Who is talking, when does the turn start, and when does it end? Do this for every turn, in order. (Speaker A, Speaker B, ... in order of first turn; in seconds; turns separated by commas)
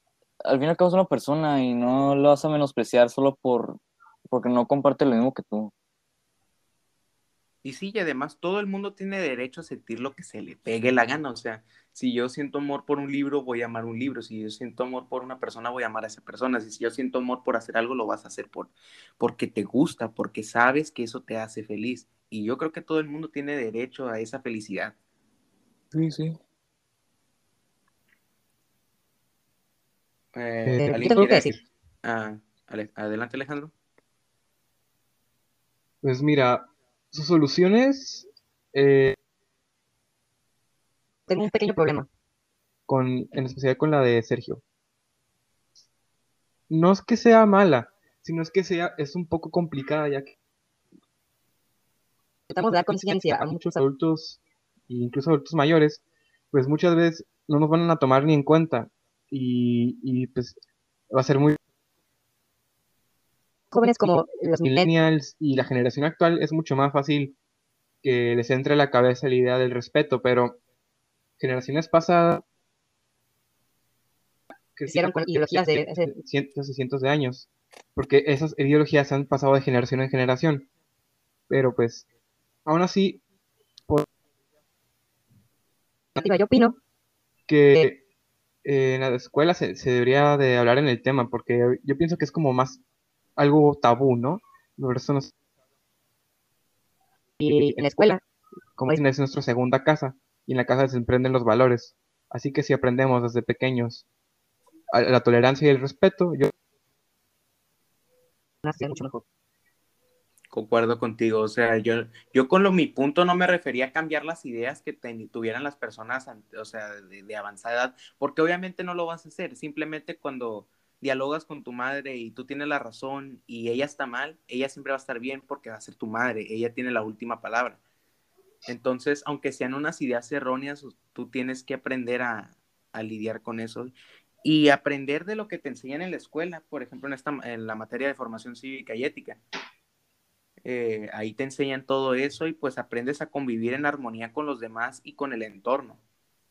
Speaker A: 0.4-5.7, Speaker B: 7.6-24.9, Speaker A: 25.9-26.4, Speaker B: 30.3-33.7, Speaker C: 30.6-31.6, Speaker D: 30.8-31.5, Speaker C: 36.0-39.1, Speaker D: 41.3-42.1, Speaker C: 42.9-44.6, Speaker C: 46.7-50.4, Speaker D: 52.5-53.8, Speaker C: 53.4-60.6, Speaker C: 61.1-61.6, Speaker D: 63.7-64.9, Speaker C: 64.6-67.3, Speaker C: 68.0-70.6, Speaker C: 71.4-72.4, Speaker C: 74.8-80.7, Speaker D: 74.8-76.1, Speaker C: 81.5-82.1, Speaker C: 82.7-83.2, Speaker D: 86.2-86.8, Speaker C: 87.5-88.0, Speaker C: 88.6-92.8, Speaker C: 93.4-95.3, Speaker D: 97.4-98.2, Speaker C: 98.8-104.0, Speaker C: 104.9-106.5, Speaker D: 108.6-109.2, Speaker B: 110.5-127.8, Speaker B: 128.7-139.4, Speaker B: 140.6-146.0